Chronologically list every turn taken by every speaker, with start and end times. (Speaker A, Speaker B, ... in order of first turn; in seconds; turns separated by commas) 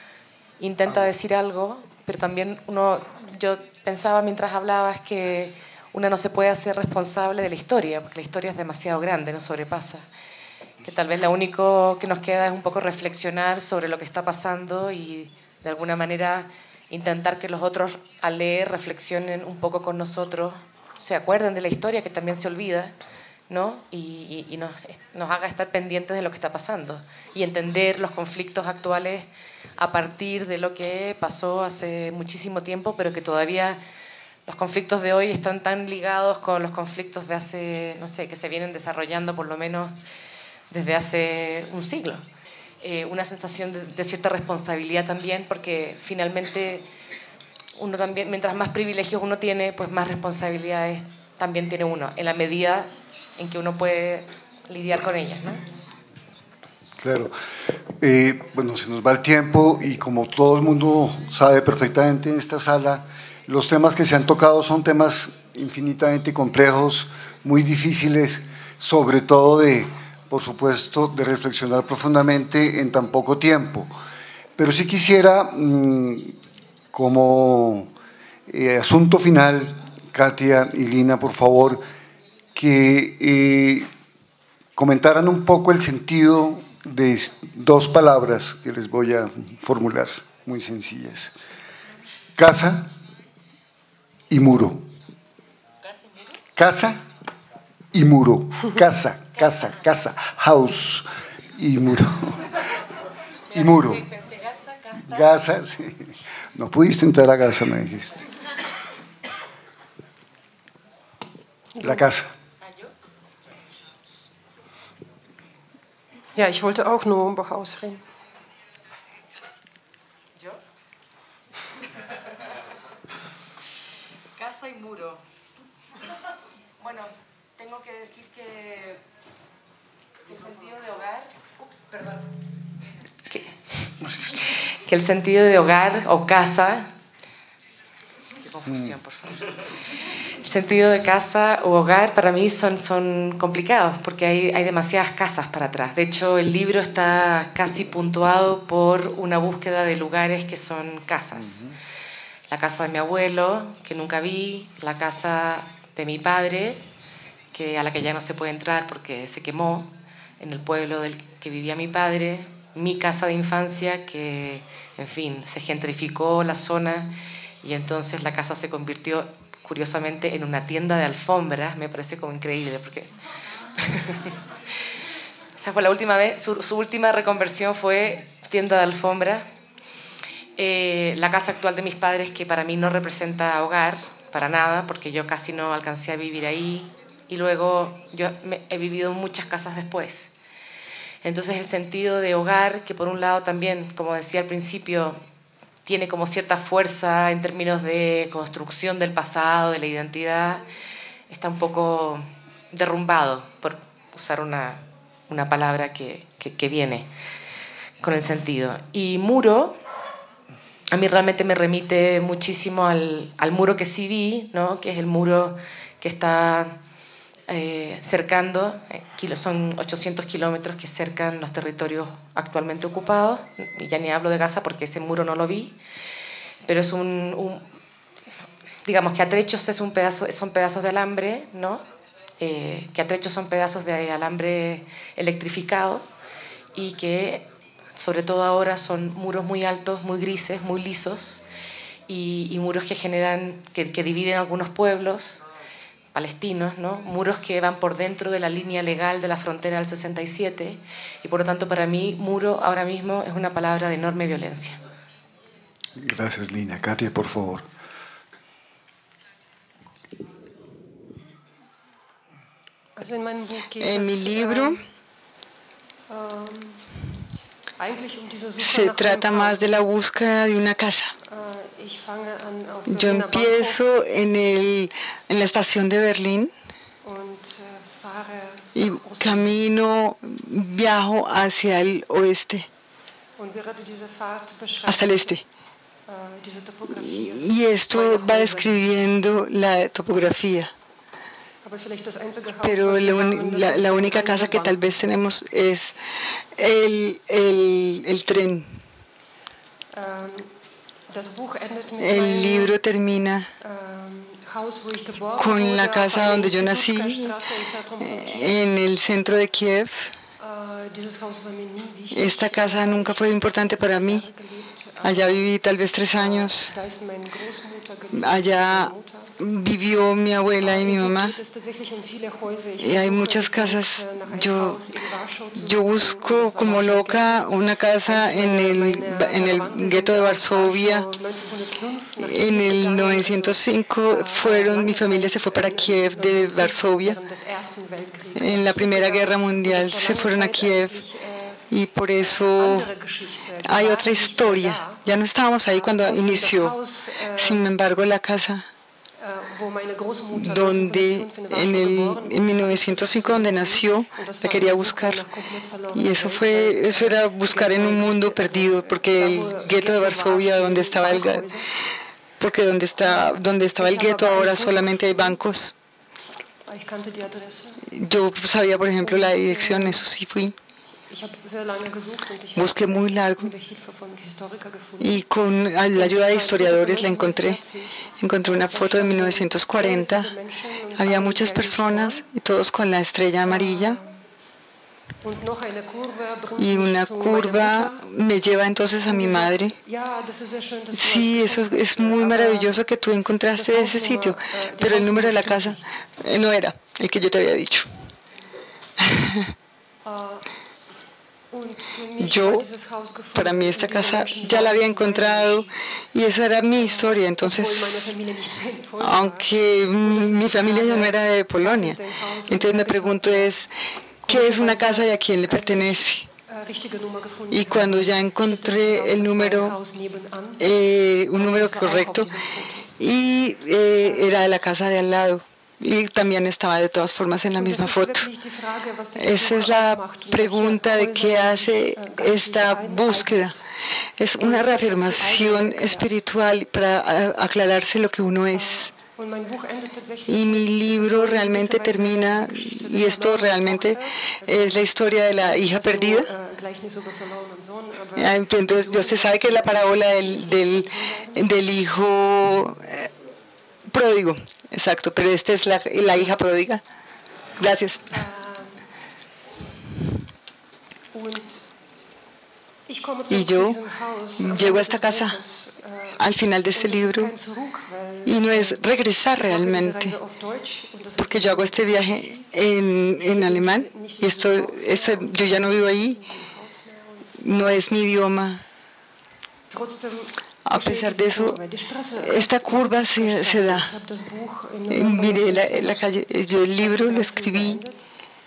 Speaker A: 0.6-10.1, Speaker A: 10.8-22.9, Speaker A: 23.5-33.8, Speaker A: 34.5-40.0, Speaker A: 40.7-42.2, Speaker A: 42.8-46.9, Speaker A: 47.8-55.6, Speaker B: 57.0-57.3, Speaker B: 58.0-73.9, Speaker B: 74.6-76.4, Speaker B: 76.9-77.9, Speaker B: 78.5-81.8, Speaker B: 82.5-83.9, Speaker B: 84.8-91.3, Speaker B: 92.4-92.9, Speaker B: 94.3-94.9, Speaker B: 96.6-97.0, Speaker B: 97.9-102.6, Speaker B: 103.5-104.1, Speaker A: 103.6-105.0, Speaker B: 105.0-108.3, Speaker C: 111.8-112.1, Speaker B: 111.8-112.3, Speaker A: 112.6-112.9, Speaker C: 116.4-118.0, Speaker A: 124.4-125.2, Speaker A: 126.8-129.0, Speaker A: 130.3-132.2, Speaker A: 133.3-136.9, Speaker A: 138.4-139.6, Speaker A: 140.4-151.6, Speaker B: 151.4-151.8, Speaker A: 152.5-156.8, Speaker A: 157.5-173.1, Speaker A: 173.8-174.4, Speaker A: 175.6-179.4, Speaker A: 180.6-190.3, Speaker A: 191.2-195.2, Speaker A: 195.9-200.7, Speaker A: 201.3-207.1, Speaker A: 208.0-209.8, Speaker A: 210.9-216.8, Speaker A: 217.5-225.8, Speaker A: 226.7-227.7, Speaker A: 228.8-231.8, Speaker A: 232.4-236.1, Speaker A: 236.8-241.4, Speaker A: 242.1-245.4, Speaker A: 246.1-254.8, Speaker B: 256.0-257.7, Speaker C: 263.0-264.8, Speaker D: 263.8-264.9, Speaker C: 266.1-266.9, Speaker C: 267.8-269.8, Speaker D: 268.6-271.1, Speaker C: 271.3-273.8, Speaker D: 272.9-276.5, Speaker C: 277.0-279.6, Speaker D: 278.8-282.7, Speaker C: 283.4-285.4, Speaker D: 284.9-285.4, Speaker C: 286.1-288.9, Speaker D: 286.9-290.7, Speaker C: 291.6-294.8, Speaker D: 292.6-295.9, Speaker D: 296.6-298.8, Speaker C: 299.9-300.5, Speaker C: 301.1-302.8, Speaker D: 302.0-303.5, Speaker C: 303.6-308.7, Speaker D: 305.4-307.4, Speaker D: 308.0-310.1, Speaker C: 310.4-315.5, Speaker D: 312.1-314.3, Speaker D: 315.0-316.7, Speaker C: 316.1-319.4, Speaker D: 318.1-321.4, Speaker C: 320.6-327.5, Speaker D: 322.8-324.8, Speaker D: 325.6-331.1, Speaker C: 328.1-341.6, Speaker D: 332.2-337.2, Speaker D: 338.4-340.9, Speaker D: 341.7-342.9, Speaker C: 342.2-345.1, Speaker D: 343.6-346.8, Speaker C: 345.7-347.6, Speaker D: 347.4-348.7, Speaker C: 349.2-361.7, Speaker D: 350.3-355.2, Speaker D: 355.9-361.5, Speaker D: 362.4-365.7, Speaker C: 363.0-365.4, Speaker C: 366.7-367.9, Speaker D: 367.9-370.6, Speaker C: 369.0-370.0, Speaker C: 371.1-375.2, Speaker D: 372.6-373.5, Speaker D: 375.0-377.6, Speaker C: 375.9-382.2, Speaker D: 378.2-380.3, Speaker D: 381.0-384.0, Speaker C: 383.4-384.2, Speaker C: 385.2-388.0, Speaker D: 386.6-389.7, Speaker C: 389.1-392.8, Speaker D: 390.9-397.9, Speaker C: 393.5-395.9, Speaker D: 399.0-399.5, Speaker C: 400.1-400.5, Speaker C: 401.5-405.7, Speaker D: 402.2-402.7, Speaker D: 403.4-408.1, Speaker C: 406.7-413.5, Speaker D: 409.0-412.0, Speaker D: 412.5-413.7, Speaker C: 414.2-420.7, Speaker D: 414.3-416.3, Speaker D: 417.5-419.8, Speaker D: 420.6-422.3, Speaker C: 421.3-422.9, Speaker D: 423.0-428.3, Speaker C: 424.0-424.4, Speaker C: 427.6-433.6, Speaker D: 429.2-433.5, Speaker D: 434.2-438.9, Speaker C: 434.4-436.1, Speaker C: 438.5-451.7, Speaker D: 440.3-446.3, Speaker D: 448.2-453.1, Speaker D: 453.9-456.8, Speaker C: 456.1-456.4, Speaker D: 457.6-458.0, Speaker C: 458.1-458.9, Speaker C: 461.1-461.6, Speaker C: 462.9-468.8, Speaker D: 463.3-463.8, Speaker D: 464.4-465.4, Speaker D: 466.2-467.3, Speaker D: 468.3-470.1, Speaker C: 469.4-472.5, Speaker D: 471.2-476.2, Speaker C: 473.2-477.8, Speaker D: 477.4-478.6, Speaker C: 479.7-488.1, Speaker D: 480.6-481.6, Speaker D: 482.2-483.9, Speaker D: 484.9-487.8